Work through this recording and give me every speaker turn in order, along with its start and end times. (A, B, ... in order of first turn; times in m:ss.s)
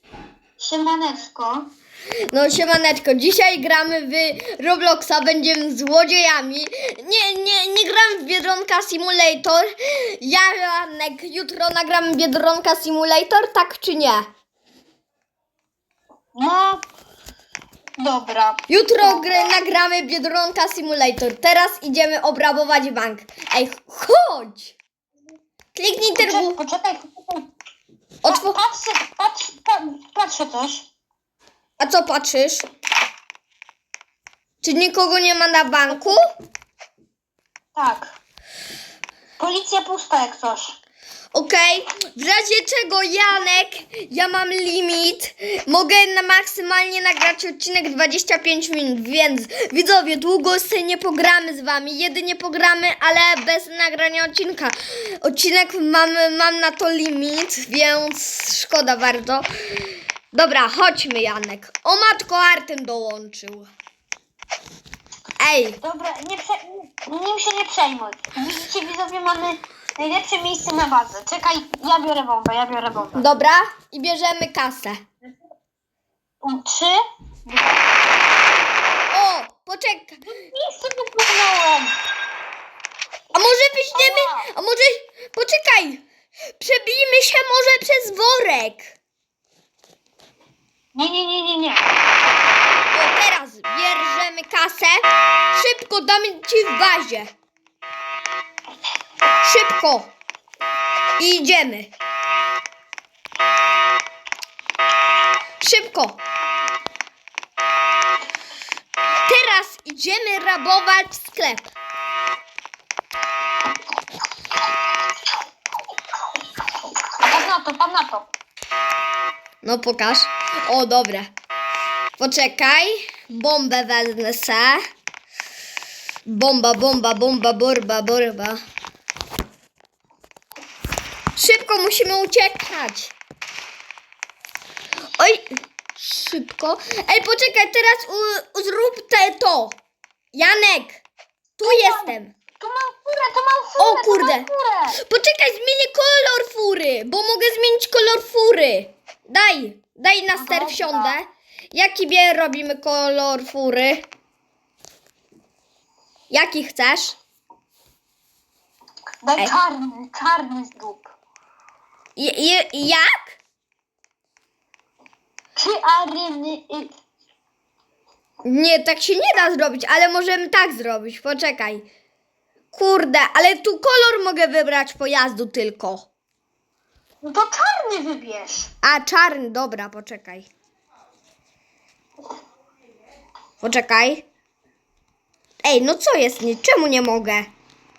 0:00.6-0:01.7 A
0:02.3-0:14.3 B
0:16.3-0:16.8 A
0:18.0-0:19.6 A
0:18.7-0:24.8 B
0:25.8-0:26.6 B
0:26.1-0:27.5 A
0:28.2-0:28.6 B
0:28.3-0:30.9 A
0:31.8-0:32.7 B
0:34.6-0:36.2 B
0:35.9-0:36.2 A
0:37.8-0:38.1 A
0:39.4-0:40.8 A
0:41.3-1:03.7 B
1:05.4-1:05.8 B
1:05.8-1:13.2 A
1:13.2-1:15.0 B
1:16.4-1:17.9 A
1:19.1-1:20.2 B
1:20.3-1:22.0 A
1:23.3-1:26.0 B
1:23.9-1:24.5 A
1:26.6-1:29.0 B
1:30.9-1:31.9 A
1:32.9-1:37.3 B
1:39.4-1:40.1 B
1:41.2-1:41.9 B
1:45.6-1:46.2 B
1:49.2-1:51.7 B
1:57.2-1:58.3 A
1:59.6-2:01.3 B
2:02.2-2:04.8 B
2:06.2-2:08.6 B
2:11.4-2:13.2 B
2:15.2-2:19.8 B
2:20.3-2:21.0 B
2:21.6-2:22.3 B
2:21.6-2:25.0 A
2:23.8-2:34.0 B
2:30.3-2:31.2 A
2:36.3-2:37.2 B
2:39.2-2:41.1 A
2:42.2-2:43.4 B
2:45.6-2:46.9 A
2:48.4-2:51.8 B
2:52.7-2:56.1 B
2:57.2-2:58.7 A
2:58.8-3:00.5 B
3:03.6-3:04.2 B
3:05.6-3:07.5 B